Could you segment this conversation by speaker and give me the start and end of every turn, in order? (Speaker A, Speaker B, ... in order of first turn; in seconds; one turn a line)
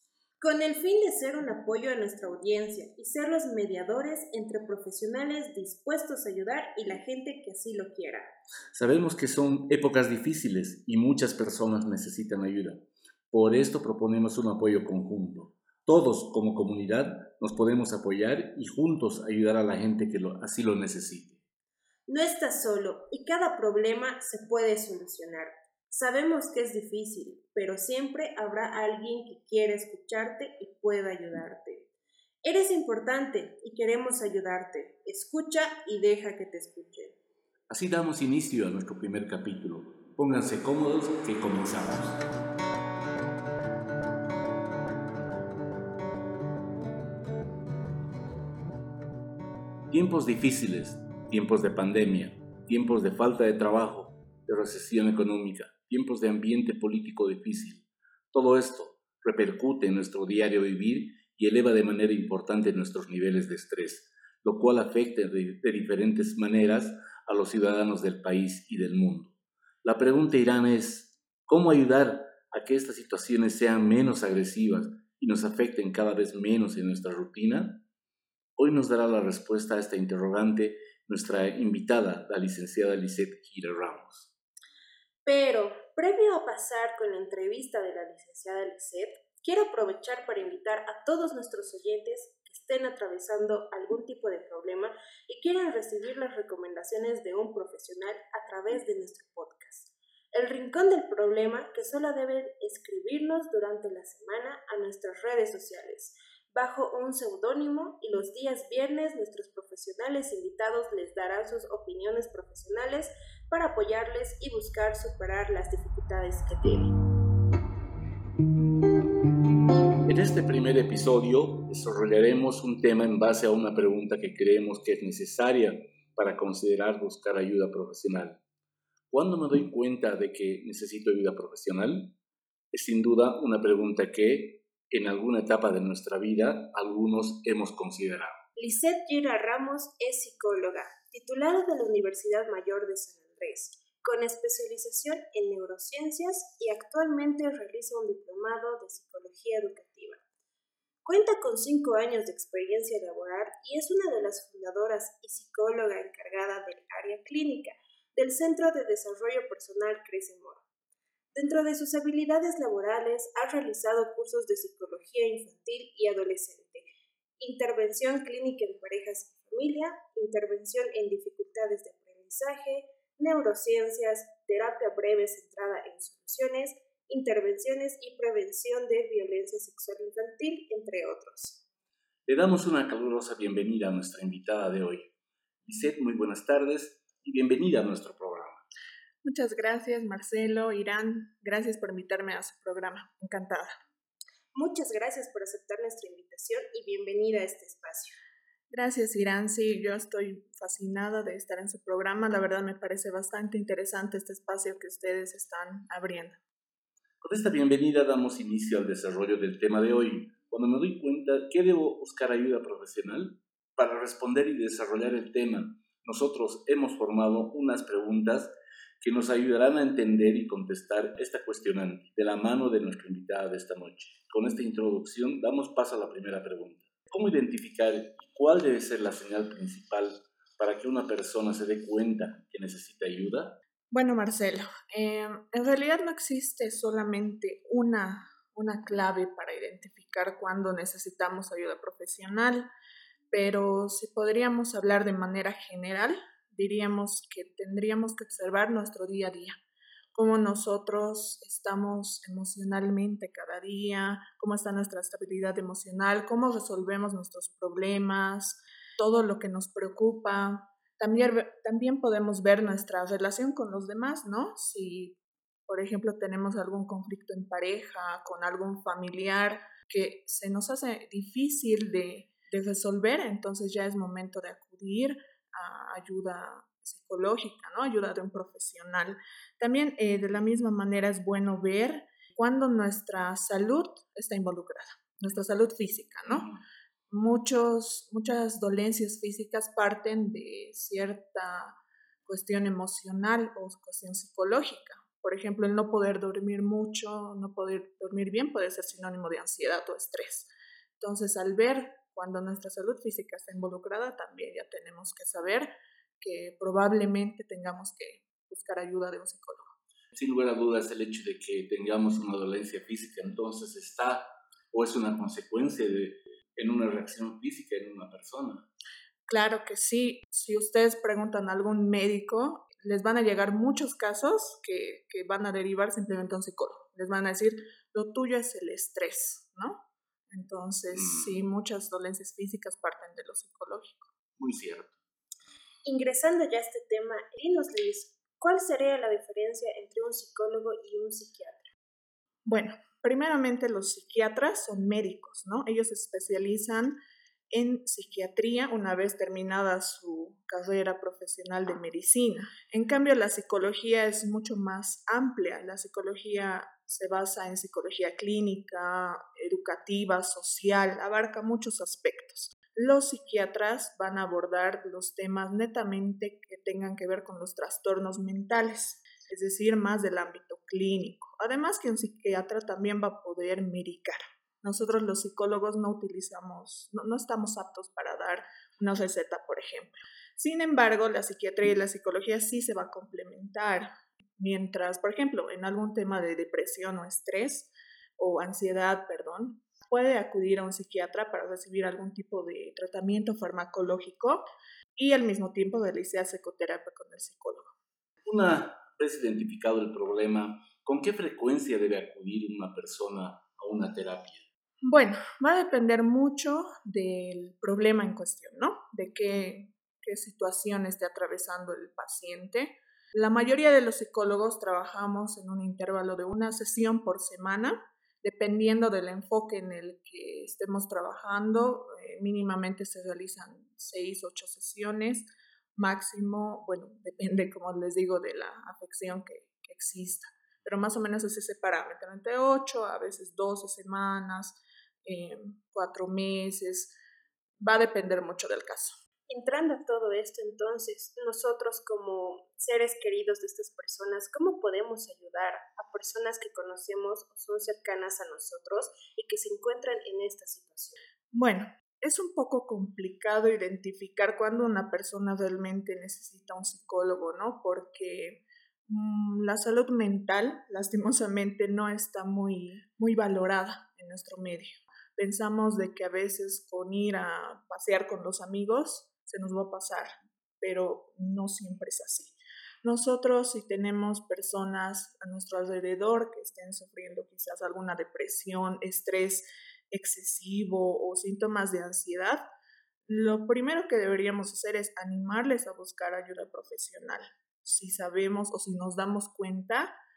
Speaker A: 0.4-8.3
Speaker B: 8.7-21.4
Speaker A: 22.1-31.9
Speaker A: 32.4-37.2
Speaker B: 37.7-42.2
Speaker B: 49.9-77.8
Speaker B: 78.6-84.3
Speaker A: 85.2-116.9
Speaker B: 120.1-128.4
Speaker B: 129.1-132.1
Speaker B: 132.7-138.4
Speaker A: 138.6-150.2
Speaker A: 151.0-160.6
Speaker A: 161.3-166.9
Speaker A: 167.4-181.6
Speaker B: 182.2-185.1
Speaker B: 185.6-188.6
Speaker C: 189.2-193.7
Speaker A: 194.5-198.2
Speaker C: 198.7-206.4
Speaker B: 207.2-233.6
Speaker C: 233.9-242.7
Speaker C: 243.3-249.6
Speaker C: 250.1-286.5
Speaker B: 286.3-286.6
Speaker C: 287.1-309.7
Speaker B: 310.1-318.7
Speaker C: 319.3-334.1
Speaker B: 330.9-331.4
Speaker B: 334.4-335.0
Speaker A: 335.8-341.7
Speaker C: 342.5-347.0
Speaker C: 347.5-383.9
Speaker C: 384.4-394.4
Speaker C: 395.0-397.7
Speaker B: 398.2-404.4
Speaker C: 404.8-436.9
Speaker C: 437.6-439.0
Speaker A: 439.3-451.0
Speaker C: 451.3-470.1
Speaker C: 470.6-482.4
Speaker C: 483.1-489.9